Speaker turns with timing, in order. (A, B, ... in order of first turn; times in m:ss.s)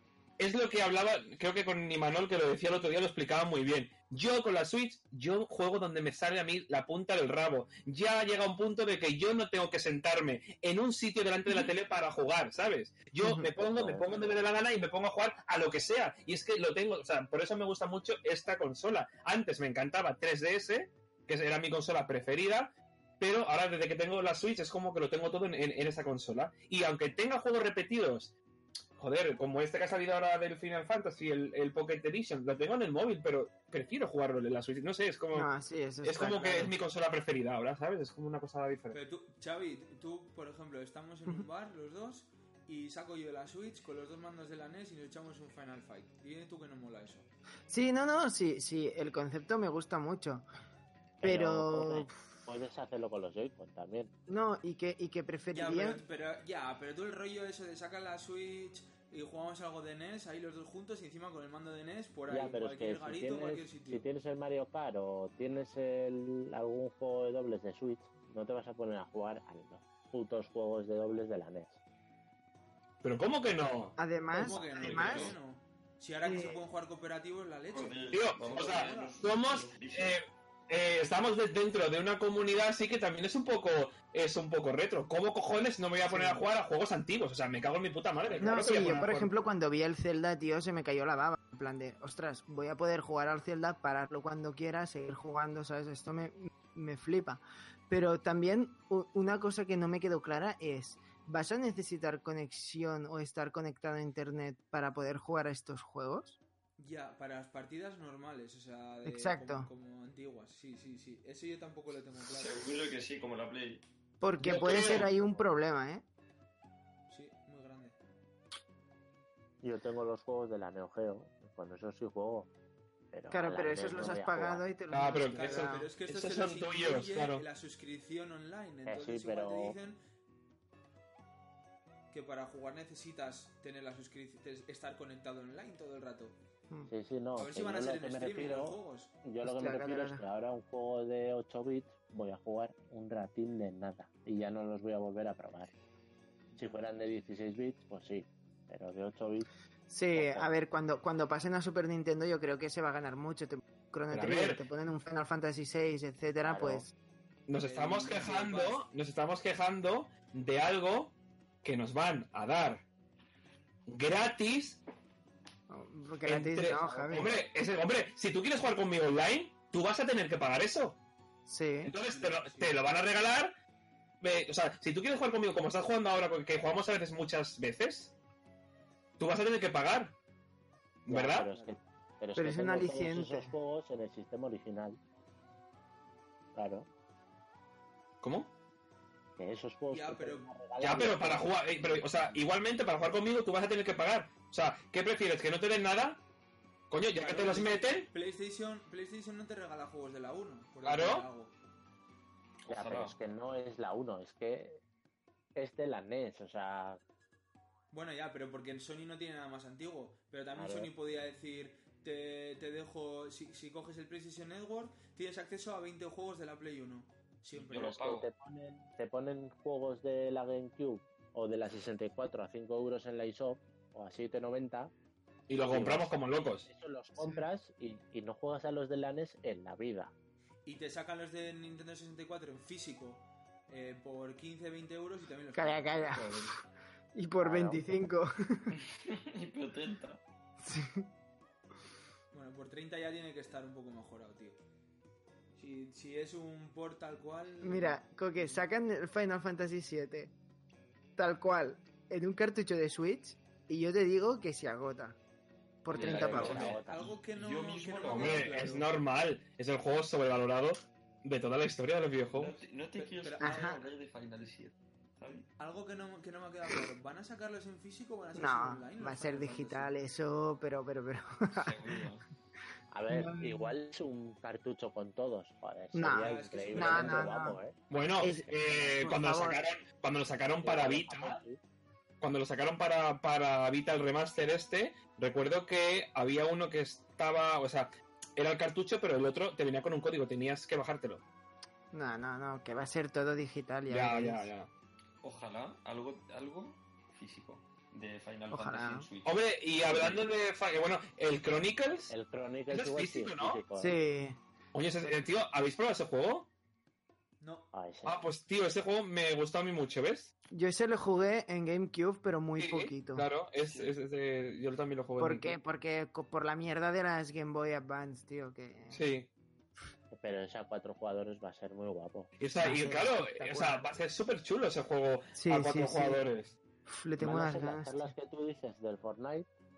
0:00.4-0:28.4 A
0:13.2-0:13.5 B
0:13.6-0:14.4 C
0:29.0-0:35.5 A
0:35.3-0:36.7 B
0:36.0-0:39.0 A
0:38.9-0:47.3 D
0:47.7-0:50.4 B
0:51.2-0:54.1 C
0:51.2-0:52.2 B
0:54.3-0:56.0 B
0:55.5-1:04.1 D
1:02.3-1:11.8 C
1:13.0-1:14.0 A
1:14.0-1:15.4 B
1:14.3-1:19.3 D
1:14.6-1:15.4 E
1:16.2-1:16.6 B
1:17.7-1:20.2 E
1:18.1-1:29.3 A
1:26.0-1:26.5 B
1:28.4-1:46.4 B
1:46.8-1:52.7 D
1:49.0-1:49.7 B
1:52.2-1:53.8 E
1:54.2-1:56.0 B
1:54.4-1:55.1 A
1:57.1-1:58.0 D
1:59.6-2:02.5 C
2:03.1-2:04.7 C
2:03.3-2:05.9 B
2:04.9-2:07.4 A
2:05.3-2:10.0 D
2:08.8-2:09.8 C
2:12.1-2:16.4 D
2:16.9-2:25.7 C
2:17.4-2:19.1 D
2:19.4-2:20.2 B
2:26.6-2:29.5 C
2:29.9-2:36.9 B
2:30.1-2:30.5 C
2:34.1-2:34.6 A
2:36.4-2:36.8 C
2:37.5-2:42.8 A
2:37.6-2:38.8 D
2:43.9-2:44.8 A
2:45.7-2:47.4 B
2:46.2-2:51.0 A
2:46.8-2:47.4 C
2:51.5-2:51.9 B
2:51.8-2:53.5 A
2:52.0-2:53.2 D
2:54.2-2:58.2 A
2:59.2-3:00.2 A
3:01.0-3:01.5 A
3:01.1-3:05.0 C
3:01.3-3:01.8 D
3:02.4-3:03.5 B
3:06.5-3:06.9 C
3:08.2-3:08.5 A
3:09.4-3:12.4 C
3:09.9-3:10.5 D
3:10.8-3:16.2 A
3:16.9-3:18.1 A
3:17.1-3:21.5 D
3:20.8-3:21.3 A
3:22.6-3:23.2 E
3:22.7-3:24.8 C
3:25.5-3:27.0 C
3:27.9-3:38.0 D
3:30.5-3:30.9 C
3:37.5-3:38.3 E
3:37.7-3:44.9 C
3:45.5-3:46.7 A
3:45.6-3:46.1 C
3:46.6-3:50.1 C
3:50.6-3:56.1 D
3:55.5-3:56.5 B
3:56.1-3:56.6 E
3:57.1-3:58.8 B
3:57.4-3:57.8 C
3:58.8-4:00.2 E
4:00.6-4:01.1 B
4:02.3-4:04.6 D
4:05.6-4:08.7 D
4:07.6-4:10.3 B
4:11.2-4:15.2 B
4:15.8-4:16.7 B
4:15.9-4:18.6 E
4:15.9-4:17.1 C
4:16.2-4:18.9 D
4:18.0-4:22.6 A
4:22.3-4:25.5 E
4:23.0-4:23.7 D
4:23.4-4:23.8 B
4:25.6-4:29.9 D
4:28.3-4:31.8 B
4:31.5-4:32.2 E
4:32.9-4:37.8 C
4:33.1-4:33.7 B
4:35.9-4:37.6 B
4:36.2-4:37.4 D
4:37.9-4:41.4 A
4:38.2-4:39.6 B
4:38.5-4:38.9 C
4:40.6-4:41.6 C
4:42.2-4:51.2 A
4:51.9-4:54.5 B
4:53.9-4:54.7 A
4:55.2-5:00.2 E
4:58.5-4:59.1 B
4:59.2-5:02.1 A
5:02.1-5:04.0 C
5:02.7-5:03.6 A
5:03.8-5:04.4 B
5:04.7-5:06.5 A
5:07.4-5:07.7 D
5:07.7-5:08.2 C
5:08.0-5:10.3 A
5:10.5-5:13.3 B
5:12.6-5:15.6 A
5:15.2-5:19.0 B
5:18.9-5:19.3 A
5:20.1-5:22.3 C
5:22.4-5:26.6 A
5:22.6-5:23.9 B
5:25.3-5:26.2 B
5:26.9-5:28.1 B
5:27.2-5:29.5 C